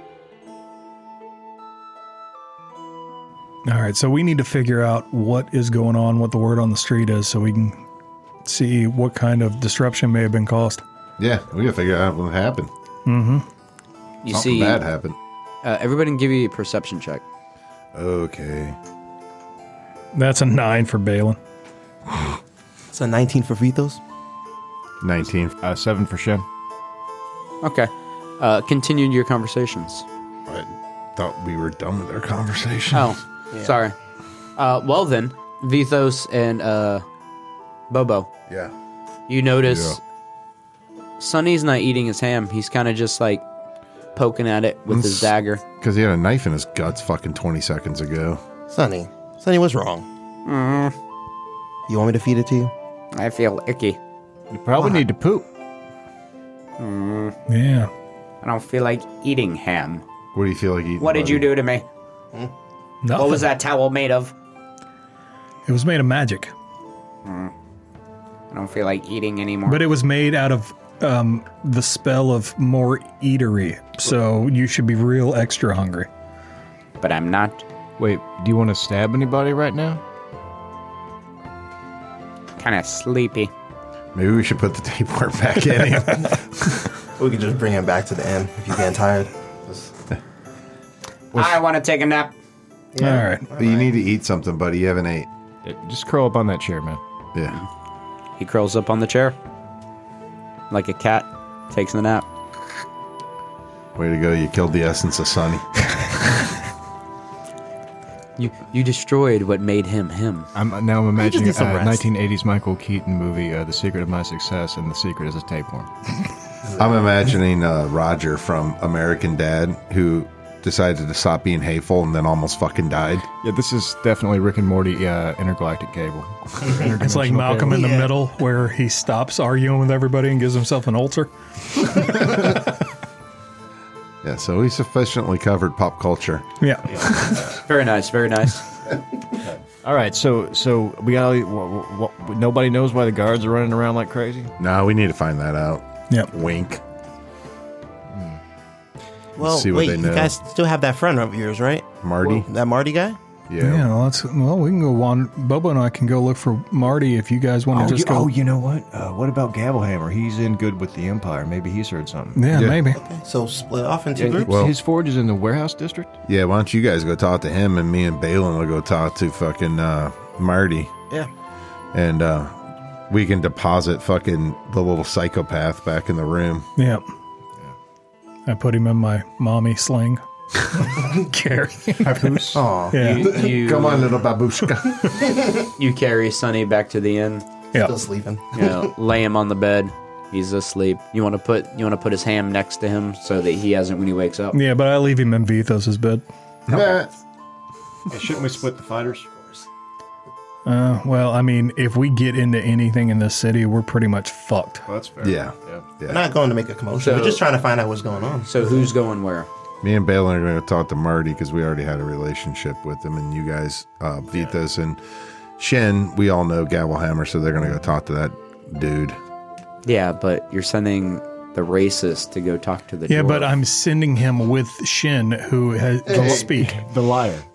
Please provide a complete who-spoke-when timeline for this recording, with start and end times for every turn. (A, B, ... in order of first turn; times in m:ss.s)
0:03.7-0:07.8 A
0:08.4-0:10.8 A
0:11.2-0:12.7 B
0:13.0-0:13.4 A
0:14.2-0:14.8 C
0:14.3-0:15.2 B
0:15.6-0:17.2 C
0:17.9-0:18.8 B
0:20.1-0:21.4 A
0:22.9-0:24.0 D
0:25.0-0:25.6 B
0:25.6-0:26.4 E
0:27.6-0:30.0 C
0:30.5-0:33.1 B
0:32.9-0:33.9 C
0:34.6-0:37.0 C
0:37.9-0:38.3 C
0:39.3-0:40.0 C
0:39.6-0:40.0 B
0:41.2-0:43.4 C
0:44.1-0:45.6 C
0:44.9-0:48.4 B
0:48.7-0:50.0 D
0:50.4-0:50.9 C
0:51.9-0:52.7 D
0:53.1-0:54.0 C
0:54.5-0:55.4 E
0:54.8-0:55.0 D
0:56.8-0:57.3 C
0:57.5-0:57.9 A
0:58.4-1:00.0 C
1:00.3-1:01.5 B
1:01.0-1:01.8 C
1:03.0-1:03.5 A
1:03.1-1:04.3 C
1:05.7-1:06.5 A
1:07.2-1:07.5 C
1:08.5-1:09.8 C
1:09.6-1:16.1 A
1:17.0-1:17.6 C
1:18.0-1:20.0 E
1:22.6-1:23.5 C
1:24.1-1:26.8 B
1:27.2-1:29.9 D
1:31.3-1:32.4 C
1:32.9-1:33.9 D
1:33.0-1:33.5 A
1:33.6-1:35.3 B
1:35.6-1:37.0 E
1:38.4-1:39.4 C
1:40.7-1:42.3 C
1:43.9-1:46.1 B
1:48.4-1:50.5 C
1:50.5-1:55.9 E
1:51.2-1:52.0 D
1:56.8-2:03.2 B
2:03.4-2:07.8 E
2:06.6-2:06.9 D
2:07.0-2:12.5 A
2:07.7-2:08.1 D
2:14.2-2:16.5 B
2:16.6-2:16.9 A
2:17.6-2:18.6 C
2:19.8-2:24.5 E
2:24.6-2:26.8 B
2:28.1-2:28.4 E
2:29.4-2:33.2 D
2:29.4-2:30.3 B
2:32.0-2:32.5 B
2:33.5-2:33.9 B
2:33.6-2:38.3 A
2:37.7-2:42.5 E
2:42.3-2:43.0 A
2:42.5-2:42.8 B
2:42.9-2:44.7 D
2:44.1-2:46.2 E
2:44.4-2:44.7 B
2:46.3-2:50.9 B
2:51.9-2:52.6 B
2:53.1-2:56.7 B
2:56.8-2:57.0 A
2:58.5-3:00.2 A
3:00.8-3:03.3 A
3:02.0-3:02.6 E
3:02.5-3:03.8 D
3:03.0-3:04.1 C
3:03.3-3:05.0 B
3:05.0-3:05.6 D
3:05.8-3:07.4 C
3:07.7-3:08.9 D
3:08.5-3:14.6 C
3:14.5-3:16.2 A
3:16.7-3:17.1 B
3:18.1-3:19.3 E
3:20.6-3:24.9 A
3:24.8-3:25.9 E
3:25.2-3:26.2 B
3:26.1-3:28.8 D
3:27.0-3:27.4 C
3:28.4-3:29.5 C
3:29.8-3:35.0 B
3:35.6-3:39.2 B
3:39.8-3:43.5 C
3:43.1-3:46.8 A
3:46.0-3:46.4 D
3:46.4-3:47.4 E